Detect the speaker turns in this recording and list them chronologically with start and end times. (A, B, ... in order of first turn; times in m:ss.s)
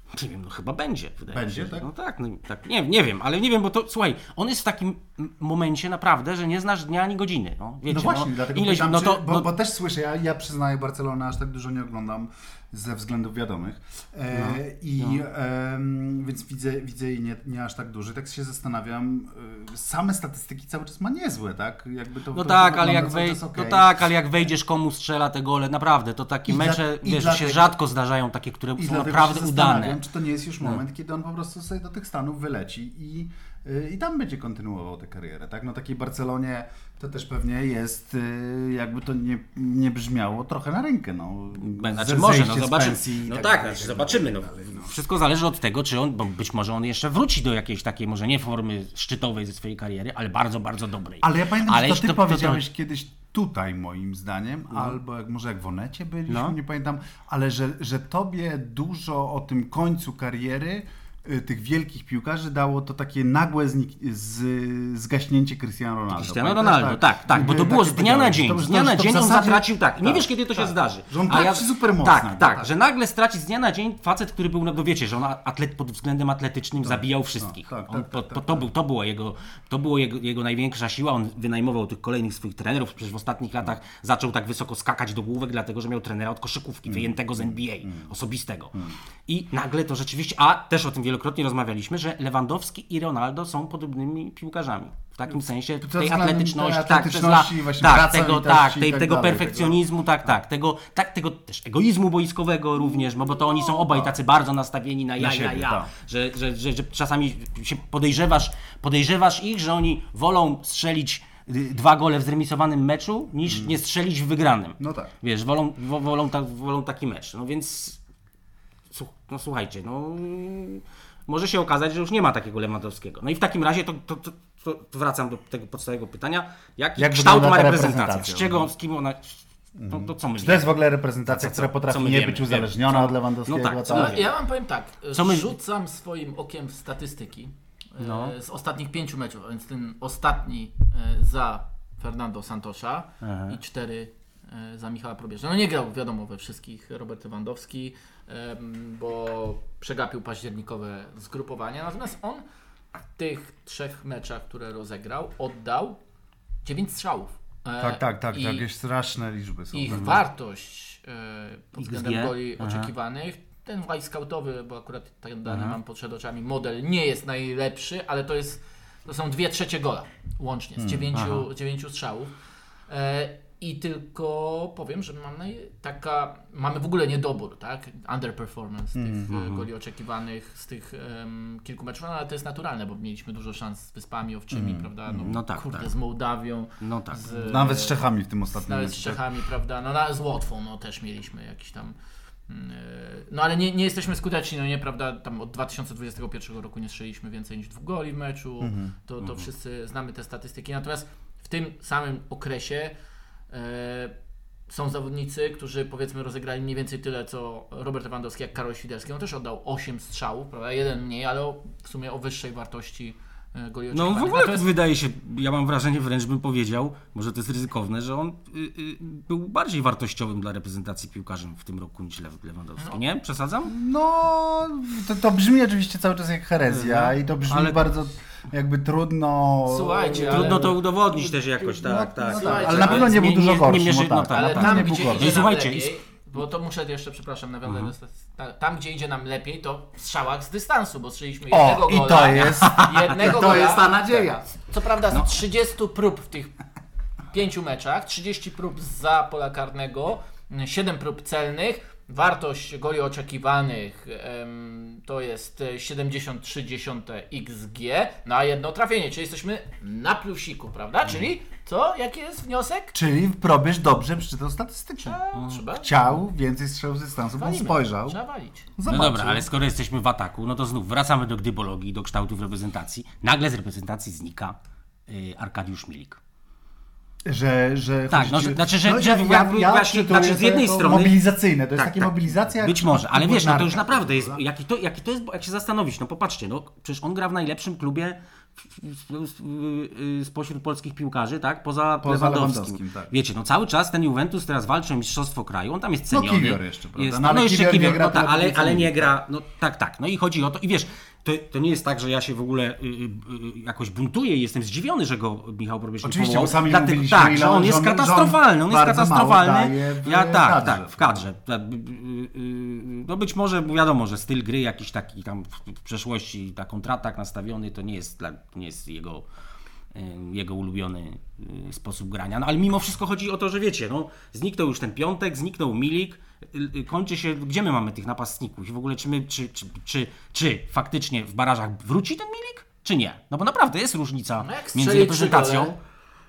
0:00.1-0:09.5 A
0:01.3-0:01.9 B
0:07.9-0:23.9 B
0:14.3-0:15.2 A
0:22.3-0:30.0 A
0:26.5-0:27.8 B
0:28.8-0:44.9 B
0:41.6-0:52.6 A
0:51.2-1:12.7 B
0:56.3-0:56.6 A
1:06.1-1:58.0 A
1:16.8-1:18.7 B
1:26.9-1:28.1 B
1:35.8-1:39.8 B
1:43.9-1:44.2 B
1:45.2-1:45.9 B
1:53.5-1:53.8 B
1:54.8-1:55.1 B
1:58.9-2:10.7 A
2:07.0-2:08.7 B
2:09.8-2:14.2 B
2:11.3-2:14.3 A
2:13.9-2:32.4 C
2:15.1-2:15.5 A
2:18.0-2:18.3 A
2:23.2-2:23.6 A
2:33.2-2:36.0 C
2:36.6-2:38.6 C
2:37.8-2:40.2 B
2:39.7-2:52.3 C
2:39.9-2:40.2 A
2:41.8-2:42.9 A
2:45.5-2:45.8 A
2:50.8-2:51.1 B
2:51.1-2:51.5 A
2:52.9-3:08.0 C
2:59.0-2:59.3 B
2:59.3-2:59.7 A
3:04.5-3:05.4 B
3:05.2-3:05.9 A
3:06.8-3:07.2 A
3:07.5-3:09.2 B
3:08.6-3:11.9 C
3:12.5-3:22.9 C
3:18.6-3:19.0 B
3:19.2-3:19.5 A
3:23.5-3:24.1 C
3:24.7-3:34.7 C
3:33.9-3:43.7 A
3:43.7-3:50.8 B
3:46.7-3:47.9 A
3:49.7-3:50.8 C
3:50.2-3:55.9 A
3:51.6-3:55.4 B
3:52.3-3:53.4 C
3:54.3-4:04.0 C
3:57.7-3:57.9 A
4:01.5-4:04.5 B
4:02.3-4:03.6 A
4:04.7-4:06.5 C
4:07.3-4:22.9 C
4:22.9-4:25.2 B
4:25.0-4:26.2 C
4:25.4-4:25.6 A
4:25.8-4:28.2 B
4:27.4-4:28.7 C
4:28.8-4:29.5 B
4:28.9-4:34.6 A
4:35.1-4:36.2 A
4:37.3-4:44.4 B
4:38.1-4:41.2 A
4:41.8-5:19.2 A
4:52.0-4:53.1 B
4:56.1-4:59.1 B
5:06.0-5:11.2 B
5:19.9-5:35.7 A
5:34.4-5:35.8 C